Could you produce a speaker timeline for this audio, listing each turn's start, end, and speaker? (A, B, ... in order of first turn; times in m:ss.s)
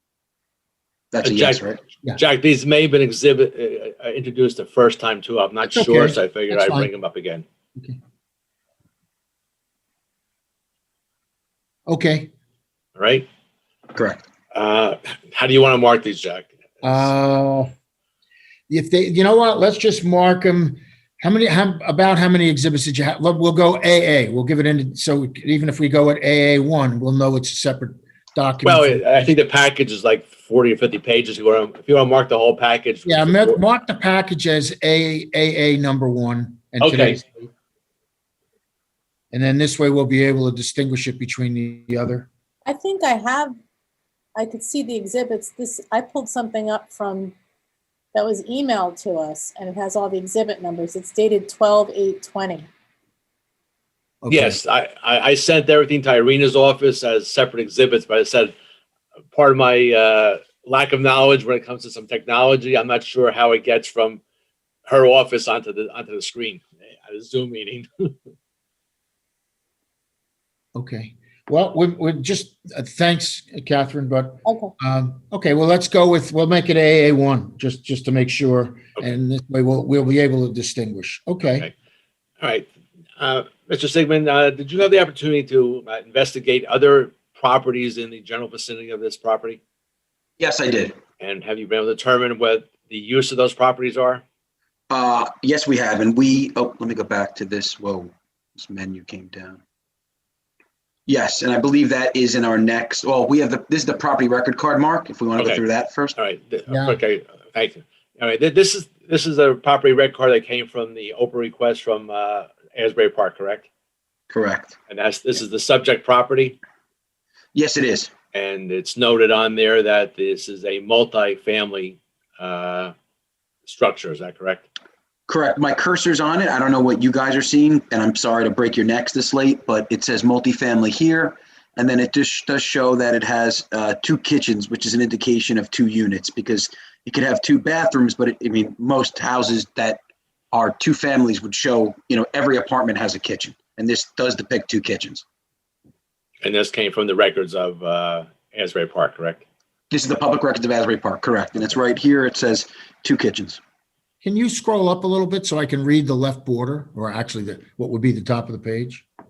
0:01.1-0:01.8 A
0:01.2-0:07.4 B
0:05.7-0:06.9 C
0:11.9-0:12.3 C
0:13.0-0:13.3 B
0:14.0-0:14.3 A
0:14.5-0:17.1 B
0:16.8-0:17.7 C
0:18.7-0:29.3 C
0:28.6-0:33.6 B
0:33.1-0:37.5 C
0:36.8-0:37.2 B
0:39.3-0:42.3 C
0:42.6-0:43.6 D
0:44.4-0:47.3 D
0:48.1-0:52.7 D
0:54.2-0:54.6 C
0:54.3-0:58.5 B
0:59.3-1:04.2 B
1:04.9-1:08.2 B
1:10.8-1:21.7 C
1:14.4-1:14.7 D
1:21.4-1:21.7 B
1:22.4-1:29.6 B
1:30.4-1:31.0 A
1:31.2-1:34.2 B
1:34.9-1:39.6 A
1:41.1-1:46.2 A
1:45.4-1:45.6 B
1:46.2-1:53.7 B
1:46.7-1:47.0 C
1:54.3-1:54.8 A
1:54.9-1:56.6 B
1:57.6-1:58.1 A
1:58.3-2:02.9 B
2:03.7-2:04.7 B
2:05.3-2:20.0 A
2:20.5-2:25.2 A
2:26.4-2:29.4 B
2:29.9-2:33.6 A
2:34.2-2:39.0 C